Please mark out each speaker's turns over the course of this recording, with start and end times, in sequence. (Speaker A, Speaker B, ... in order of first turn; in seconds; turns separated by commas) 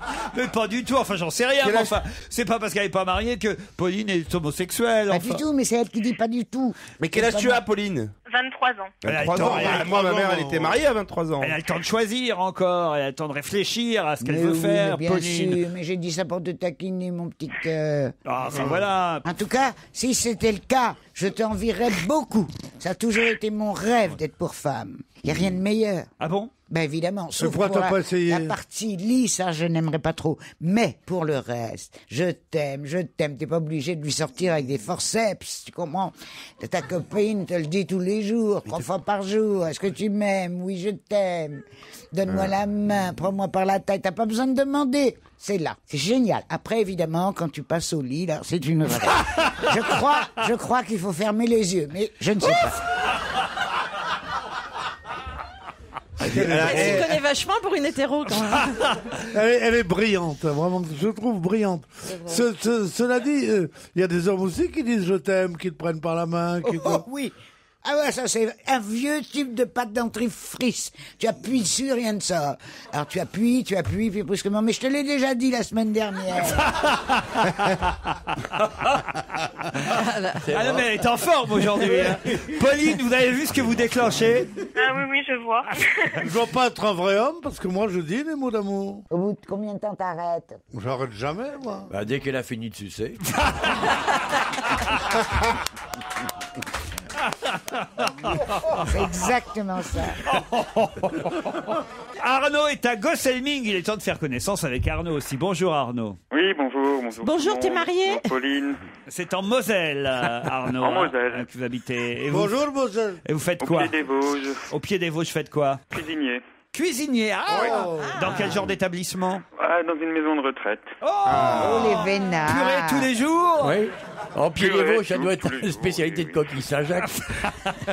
Speaker A: 0.3-5.4, Speaker B: 1.6-1.9, Speaker C: 5.1-7.6, Speaker B: 7.0-8.1, Speaker D: 8.2-8.9, Speaker B: 9.0-11.6, Speaker A: 9.0-9.9, Speaker E: 9.3-10.8, Speaker A: 11.4-15.6, Speaker C: 14.2-18.1, Speaker A: 18.2-19.2, Speaker C: 19.2-26.1, Speaker A: 26.2-26.5, Speaker C: 26.7-52.8, Speaker E: 27.4-28.5, Speaker E: 56.2-57.1, Speaker B: 56.2-57.2, Speaker F: 56.5-59.0, Speaker E: 59.3-67.0, Speaker C: 62.1-62.4, Speaker C: 66.6-76.7, Speaker A: 76.6-78.1, Speaker G: 80.4-80.9, Speaker A: 80.5-84.5, Speaker D: 84.8-86.2, Speaker E: 86.2-89.0, Speaker C: 89.1-90.6, Speaker E: 90.7-91.9, Speaker G: 91.9-93.4, Speaker A: 93.4-93.7, Speaker A: 97.2-98.8, Speaker C: 98.8-100.2, Speaker A: 100.2-106.2, Speaker H: 106.3-108.8, Speaker F: 107.2-108.3, Speaker A: 109.1-112.5, Speaker H: 110.8-111.5, Speaker E: 112.3-113.2, Speaker A: 113.2-114.0, Speaker H: 113.6-114.7, Speaker A: 114.7-115.8, Speaker H: 115.9-116.4, Speaker A: 116.7-119.4, Speaker E: 117.5-118.2, Speaker F: 118.1-118.4, Speaker H: 119.6-120.9, Speaker A: 121.0-123.8, Speaker B: 121.2-122.0, Speaker C: 121.6-123.1, Speaker G: 123.6-127.2, Speaker H: 124.6-126.4, Speaker A: 127.2-127.7